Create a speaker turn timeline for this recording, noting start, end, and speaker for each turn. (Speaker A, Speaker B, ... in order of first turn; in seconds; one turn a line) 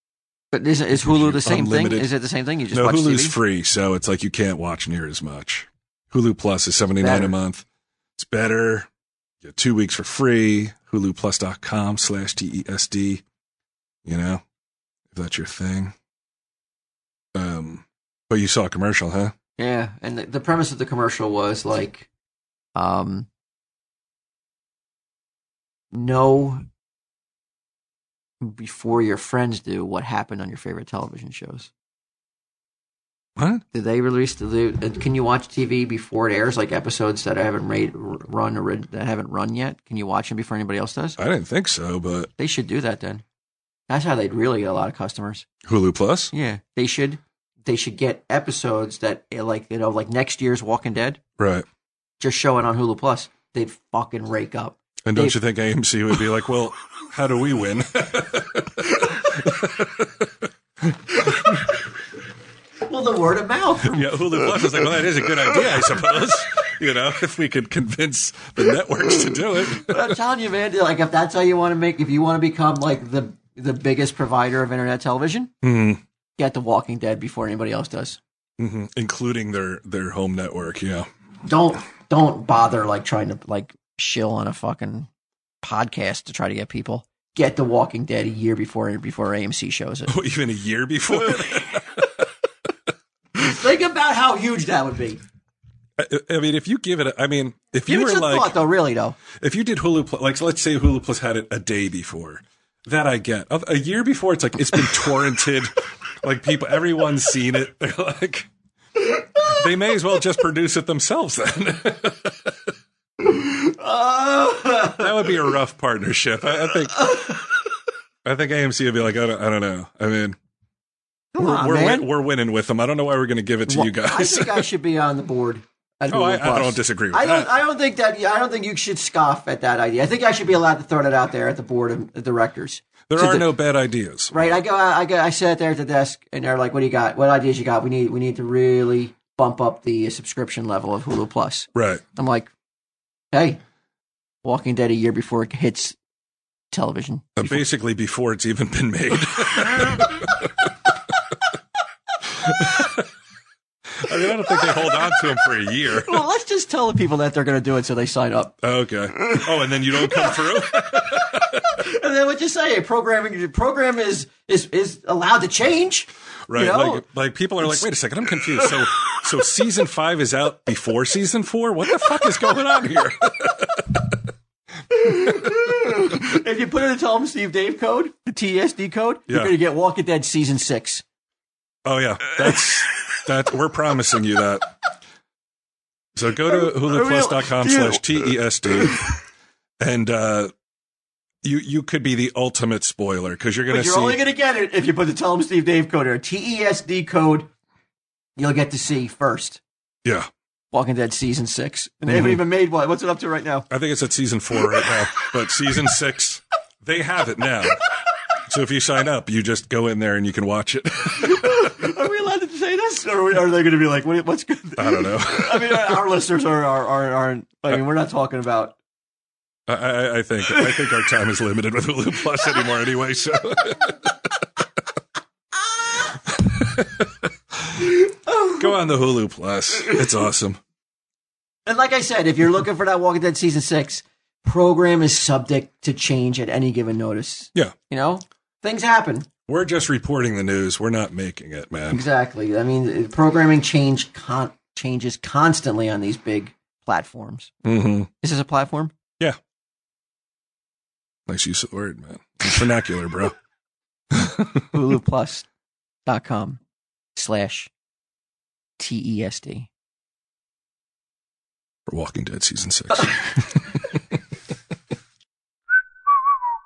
Speaker A: 0.5-3.4
Speaker B: 0.9-2.1
Speaker B: 2.7-7.6
Speaker A: 7.0-7.4
Speaker B: 8.2-8.9
Speaker B: 9.4-13.2
Speaker B: 14.1-14.4
Speaker B: 15.1-15.9
Speaker B: 17.4-19.3
Speaker A: 19.6-22.1
Speaker A: 22.8-23.3
Speaker A: 25.9-26.6
Speaker A: 28.4-31.7
Speaker B: 33.4-33.6
Speaker A: 33.7-41.2
Speaker B: 41.2-42.3
Speaker A: 42.4-43.2
Speaker A: 43.9-45.5
Speaker B: 45.6-46.3
Speaker A: 46.3-51.2
Speaker B: 51.4-51.6
Speaker A: 52.2-55.4
Speaker B: 55.1-60.1
Speaker B: 60.9-61.6
Speaker A: 62.9-64.2
Speaker B: 63.9-70.1
Speaker A: 69.9-75.5
Speaker B: 75.6-76.0
Speaker A: 76.4-78.2
Speaker B: 78.6-81.1
Speaker A: 81.5-85.1
Speaker A: 85.6-90.1
Speaker B: 90.1-92.1
Speaker A: 93.4-95.2
Speaker B: 96.0-98.6
Speaker A: 97.9-99.2
Speaker B: 99.3-108.5
Speaker B: 109.5-112.5
Speaker A: 113.2-115.3
Speaker B: 115.0-117.1
Speaker A: 117.0-117.4
Speaker B: 118.2-120.4
Speaker A: 121.3-122.1
Speaker B: 121.4-124.7
Speaker A: 123.7-133.5
Speaker B: 126.1-127.5
Speaker B: 133.1-134.4
Speaker A: 134.3-142.5
Speaker B: 141.8-142.0
Speaker A: 143.3-143.6
Speaker A: 144.4-146.0
Speaker A: 146.7-147.6
Speaker B: 147.4-150.5
Speaker B: 152.5-153.0
Speaker B: 154.0-156.2
Speaker A: 154.4-154.9
Speaker A: 156.1-158.5
Speaker B: 158.6-161.7
Speaker A: 160.0-167.0
Speaker B: 166.5-173.8
Speaker A: 174.9-181.0
Speaker B: 175.1-175.6
Speaker B: 179.3-179.6
Speaker B: 181.8-184.8
Speaker B: 186.2-189.1
Speaker A: 186.5-188.9
Speaker B: 189.8-190.5
Speaker B: 191.4-194.2
Speaker A: 193.7-197.5
Speaker A: 198.4-199.6
Speaker A: 200.7-203.7
Speaker B: 202.1-202.4
Speaker B: 203.7-207.8
Speaker B: 208.5-211.8
Speaker A: 211.2-218.8
Speaker B: 214.8-216.0
Speaker B: 219.7-223.9
Speaker B: 226.3-227.1
Speaker A: 228.3-228.7
Speaker B: 228.6-230.6
Speaker A: 231.7-239.3
Speaker B: 239.5-242.1
Speaker A: 241.9-247.5
Speaker B: 247.7-248.1
Speaker A: 248.2-248.9
Speaker B: 251.3-253.3
Speaker B: 254.1-254.6
Speaker A: 254.7-255.5
Speaker A: 256.1-256.6
Speaker A: 257.1-257.7
Speaker A: 258.8-259.7
Speaker B: 261.9-263.7